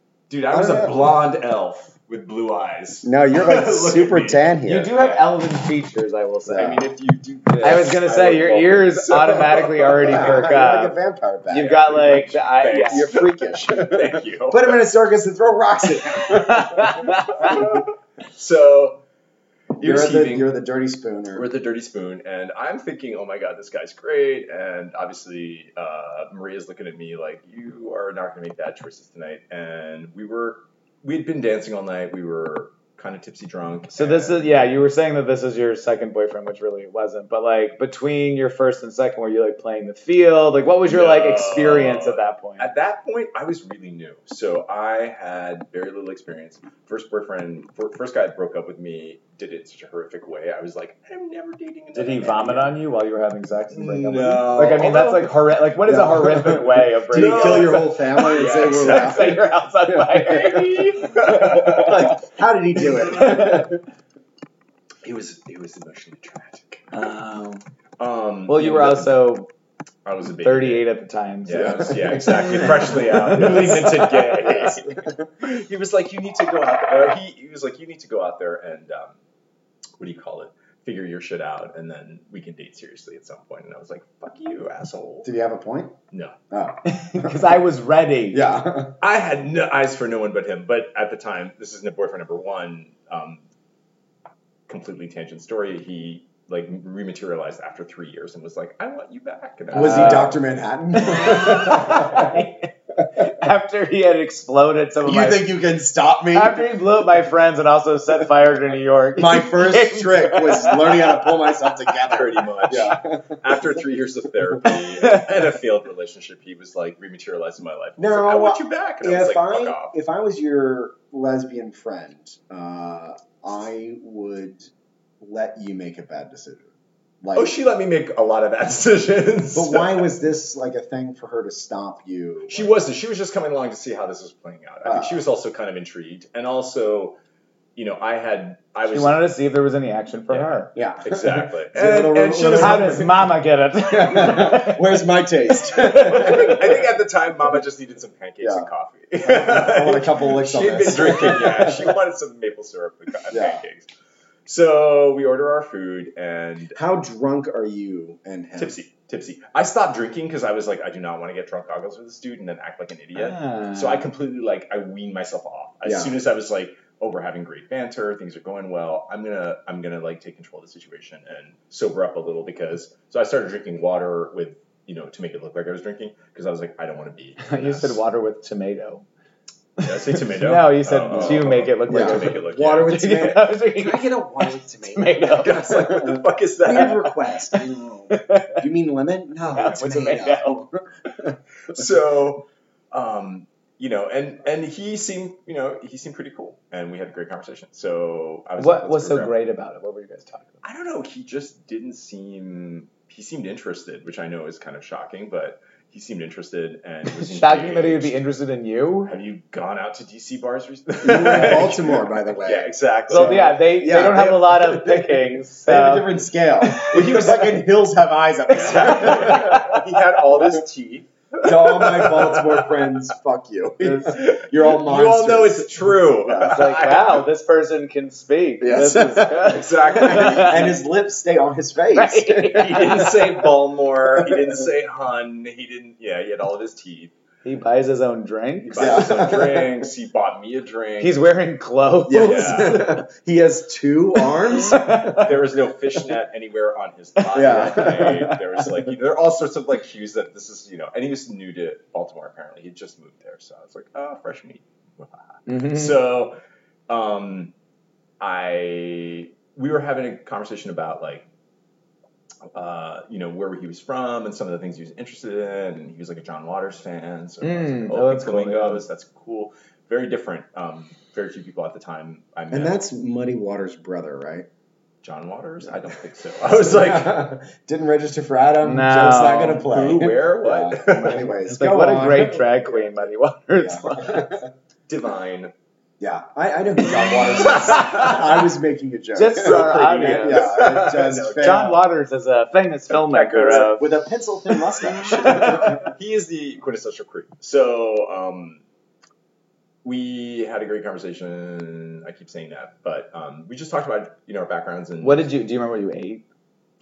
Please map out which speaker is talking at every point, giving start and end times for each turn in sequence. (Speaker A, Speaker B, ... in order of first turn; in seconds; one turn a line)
Speaker A: 0.3-5.3
Speaker B: 0.5-1.1
Speaker B: 3.0-4.9
Speaker C: 4.6-6.8
Speaker A: 6.5-10.4
Speaker C: 7.6-11.0
Speaker B: 10.0-17.8
Speaker C: 11.5-13.1
Speaker A: 12.3-14.8
Speaker C: 16.2-17.7
Speaker A: 17.3-19.0
Speaker A: 19.8-20.5
Speaker B: 19.8-21.5
Speaker A: 21.3-34.7
Speaker C: 33.9-42.7
Speaker A: 40.8-52.8
Speaker C: 51.9-61.9
Speaker A: 53.7-55.4
Speaker B: 55.8-60.2
Speaker A: 57.1-59.4
Speaker A: 60.1-62.1
Speaker B: 61.3-63.8
Speaker A: 63.1-63.5
Speaker C: 63.2-63.6
Speaker A: 65.0-66.9
Speaker C: 66.9-67.6
Speaker A: 68.0-69.4
Speaker C: 68.5-69.5
Speaker A: 70.0-70.8
Speaker C: 70.4-74.7
Speaker A: 71.4-79.2
Speaker B: 71.5-75.2
Speaker A: 80.0-85.3
Speaker B: 85.2-85.9
Speaker B: 86.5-87.5
Speaker C: 86.8-88.5
Speaker B: 88.3-88.9
Speaker A: 89.0-93.4
Speaker A: 94.7-100.4
Speaker B: 99.7-102.4
Speaker C: 99.7-100.3
Speaker C: 101.0-105.5
Speaker B: 105.0-106.7
Speaker C: 106.3-111.2
Speaker B: 109.2-113.8
Speaker A: 112.0-119.9
Speaker C: 115.0-115.3
Speaker B: 118.0-126.7
Speaker B: 127.2-127.5
Speaker A: 127.3-130.1
Speaker B: 129.5-132.7
Speaker A: 132.5-137.2
Speaker B: 134.8-135.2
Speaker A: 137.8-139.2
Speaker C: 138.8-140.7
Speaker A: 140.3-143.1
Speaker B: 140.7-143.3
Speaker C: 142.5-145.0
Speaker B: 143.8-146.9
Speaker C: 145.7-146.5
Speaker A: 145.8-153.9
Speaker B: 148.4-148.7
Speaker B: 149.2-151.9
Speaker B: 153.3-153.6
Speaker A: 154.4-156.8
Speaker B: 156.7-158.7
Speaker A: 158.6-178.0
Speaker C: 163.1-164.1
Speaker B: 165.8-166.2
Speaker C: 177.4-179.0
Speaker C: 179.8-184.1
Speaker A: 179.8-183.3
Speaker B: 181.1-191.8
Speaker C: 184.8-185.7
Speaker A: 185.3-187.3
Speaker C: 188.1-188.6
Speaker C: 189.5-190.6
Speaker A: 191.7-199.3
Speaker C: 198.6-200.5
Speaker A: 200.6-208.2
Speaker C: 207.2-209.1
Speaker A: 209.1-213.6
Speaker B: 211.0-219.8
Speaker C: 213.1-216.1
Speaker A: 216.7-217.7
Speaker A: 218.5-222.9
Speaker C: 219.2-219.6
Speaker B: 221.4-226.6
Speaker A: 223.8-227.2
Speaker C: 226.4-230.7
Speaker B: 228.6-233.1
Speaker A: 229.4-230.8
Speaker C: 231.9-233.3
Speaker A: 232.5-237.1
Speaker C: 237.4-239.3
Speaker A: 238.7-241.2
Speaker B: 238.7-239.7
Speaker C: 241.0-243.0
Speaker B: 242.1-245.3
Speaker A: 242.1-242.9
Speaker C: 244.2-245.3
Speaker A: 245.2-256.4
Speaker C: 247.2-248.4
Speaker B: 247.3-248.3
Speaker C: 255.5-255.9
Speaker A: 256.9-257.5
Speaker A: 258.2-261.2
Speaker A: 262.5-272.8
Speaker C: 267.4-268.8
Speaker B: 272.5-274.5
Speaker A: 275.0-277.3
Speaker B: 276.4-282.9
Speaker C: 278.6-279.6
Speaker A: 279.4-281.3
Speaker C: 280.9-284.4
Speaker B: 283.6-284.5
Speaker A: 284.9-285.5
Speaker B: 286.0-291.8
Speaker A: 287.1-288.3
Speaker C: 287.8-288.1
Speaker C: 289.1-290.6
Speaker A: 289.3-291.8
Speaker C: 291.4-293.9
Speaker A: 292.9-293.8
Speaker B: 293.3-295.9
Speaker A: 294.8-298.6
Speaker A: 299.8-305.3
Speaker C: 305.0-306.2